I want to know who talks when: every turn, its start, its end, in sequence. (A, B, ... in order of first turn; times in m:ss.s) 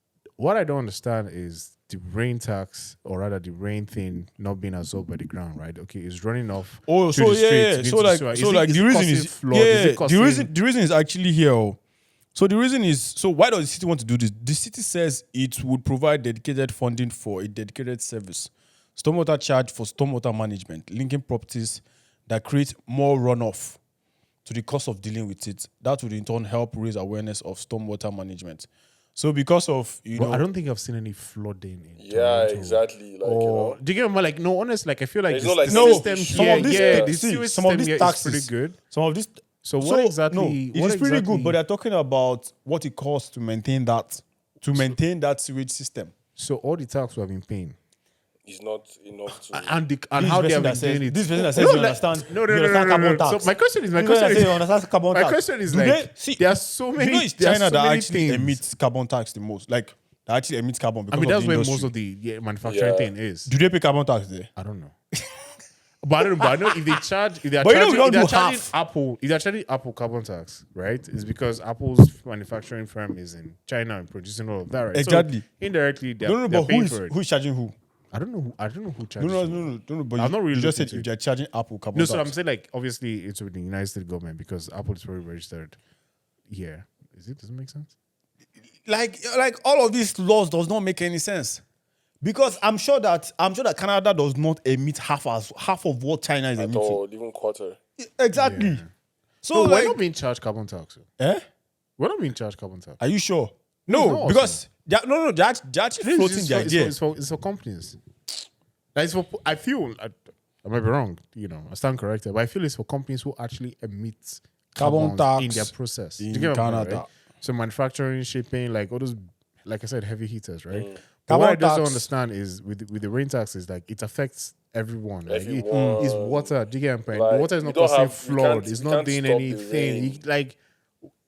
0:00.4-0:10.5 A
0:06.9-0:11.8 B
0:12.3-0:23.8 B
0:24.4-0:30.4 B
0:30.1-0:38.8 A
0:32.0-0:33.8 C
0:35.3-0:37.1 C
0:35.7-0:46.1 B
0:39.6-0:41.6 A
0:46.4-0:47.8 A
0:48.4-0:49.8 C
0:49.3-0:58.6 A
0:50.2-0:56.4 B
0:57.0-1:01.9 B
1:01.1-1:03.5 A
1:02.6-1:03.1 C
1:03.4-1:04.5 B
1:04.6-1:04.9 A
1:06.0-1:17.1 A
1:06.4-1:07.0 B
1:07.6-1:08.7 B
1:14.9-1:15.4 B
1:16.2-1:17.7 B
1:18.1-1:21.1 A
1:19.2-1:22.3 B
1:21.9-1:25.8 A
1:26.5-1:27.9 A
1:28.8-1:31.6 B
1:32.2-1:37.0 B
1:36.6-1:37.8 C
1:38.0-1:38.8 B
1:38.3-1:38.9 A
1:39.4-1:40.0 B
1:39.5-1:41.1 A
1:42.0-1:43.0 A
1:43.0-1:46.9 B
1:43.9-1:44.6 A
1:46.0-1:48.0 A
1:48.9-2:10.6 A
1:54.8-1:57.1 B
2:00.7-2:01.0 C
2:01.3-2:02.1 B
2:05.3-2:06.5 C
2:05.7-2:06.1 B
2:07.1-2:10.2 C